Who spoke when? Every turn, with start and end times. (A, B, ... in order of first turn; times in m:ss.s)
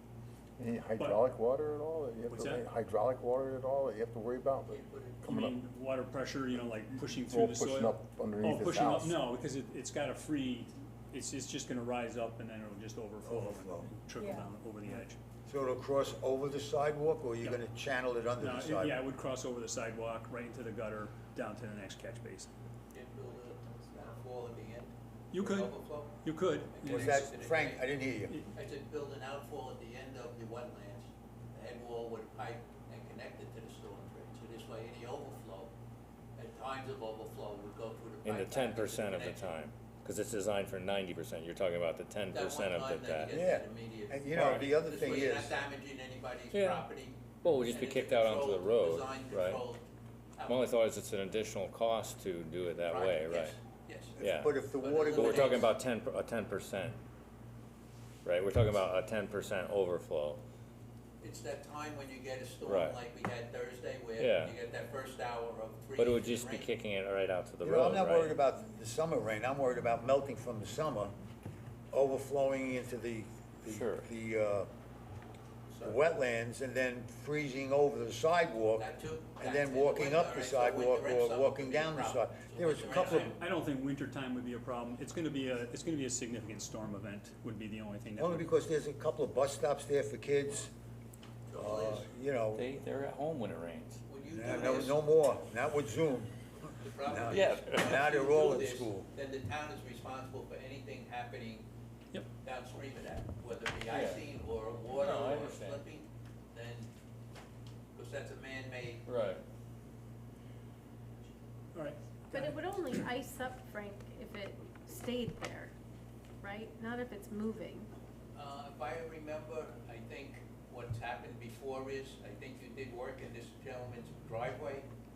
0:00.6-0:05.6 A
0:01.0-0:01.2 B
0:02.3-0:02.6 B
0:04.7-0:05.2 C
0:05.2-0:15.2 B
0:07.0-0:09.2 A
0:13.2-0:13.9 D
0:14.2-0:14.5 E
0:15.5-0:19.0 D
0:18.4-0:22.5 B
0:22.9-0:27.9 C
0:25.3-0:27.2 B
0:26.8-0:28.3 D
0:28.5-0:35.7 C
0:36.4-0:39.5 C
0:38.2-0:43.3 F
0:42.3-0:50.8 C
0:43.3-0:45.6 D
0:44.3-0:44.7 F
0:46.5-0:46.9 F
0:47.4-0:49.6 F
0:50.4-0:53.6 F
0:52.9-0:54.2 C
0:54.2-0:55.6 D
0:54.2-0:54.5 F
0:54.8-0:55.7 C
0:55.0-0:57.0 F
0:58.2-1:00.4 F
1:01.2-1:06.7 C
1:02.6-1:03.0 F
1:04.2-1:04.5 F
1:05.9-1:08.4 F
1:07.6-1:11.1 D
1:11.9-1:14.7 D
1:13.7-1:14.0 F
1:15.7-1:16.0 C
1:15.8-1:23.3 D
1:18.8-1:23.4 C
1:23.0-1:28.4 B
1:28.2-1:30.7 D
1:31.5-1:32.1 C
1:31.6-1:32.7 D
1:32.5-1:34.0 F
1:34.1-1:35.1 C
1:34.4-1:36.4 D
1:36.8-1:41.7 C
1:37.0-1:39.1 D
1:37.3-1:38.0 F
1:42.4-1:46.9 C
1:43.9-1:44.2 F
1:44.8-1:45.8 F
1:47.9-1:49.0 C
1:49.0-1:49.4 F
1:51.7-1:52.6 B
1:52.3-1:55.7 E
1:56.4-1:57.9 E
1:58.3-2:04.9 C